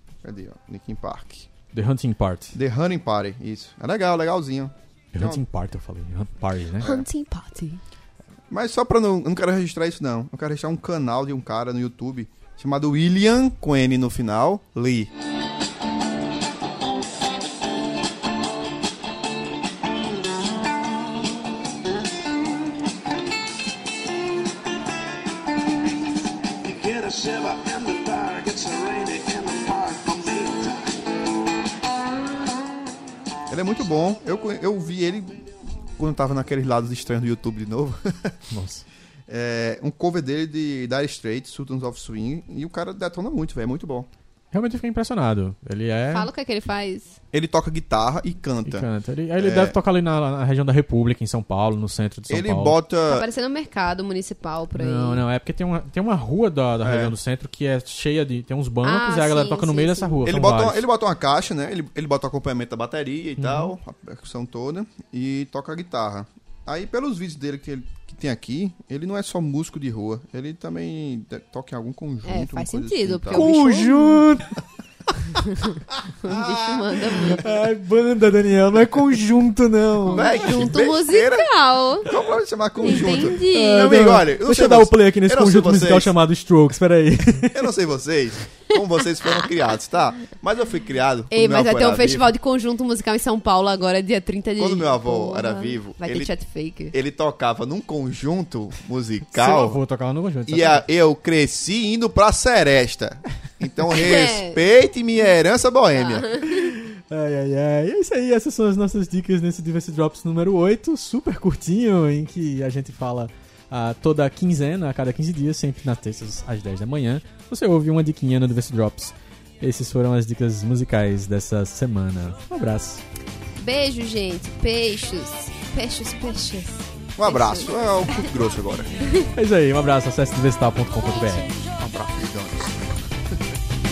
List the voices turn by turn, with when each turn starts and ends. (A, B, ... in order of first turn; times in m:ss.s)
0:00.2-0:01.5 A
0:01.7-0:02.6 B
0:02.5-0:05.4 A
0:05.1-0:06.9 B
0:06.8-0:07.1 A
0:06.8-0:07.8 C
0:08.5-0:15.1 A
0:26.6-0:30.8 D
0:33.5-0:38.4 A
0:38.5-0:38.8 B
0:39.3-0:44.1 A
0:44.5-0:46.3 B
0:46.1-0:47.2 C
0:47.3-0:48.9 A
0:48.6-0:52.8 B
0:49.4-0:49.8 A
0:52.3-0:53.2 A
0:53.1-0:55.2 C
0:54.8-1:00.9 B
0:56.8-0:57.2 A
0:58.8-1:00.2 C
1:00.2-1:13.5 A
1:03.4-1:03.7 B
1:12.2-1:14.2 C
1:13.3-1:14.6 B
1:15.4-1:17.6 C
1:16.2-1:16.9 A
1:17.3-1:20.4 B
1:20.1-1:21.5 A
1:20.1-1:22.1 C
1:22.0-1:26.1 A
1:22.8-1:23.8 C
1:22.8-1:27.6 B
1:27.5-1:32.3 A
1:31.3-1:36.9 C
1:34.6-1:36.3 A
1:36.9-1:39.8 A
1:39.3-1:40.8 B
1:40.5-1:46.4 A
1:43.9-1:44.6 C
1:46.0-1:46.7 C
1:46.4-2:03.0 B
2:03.6-2:08.3 C
2:07.2-2:08.9 A
2:09.0-2:09.3 C
2:09.3-2:11.5 B
2:11.8-2:13.2 A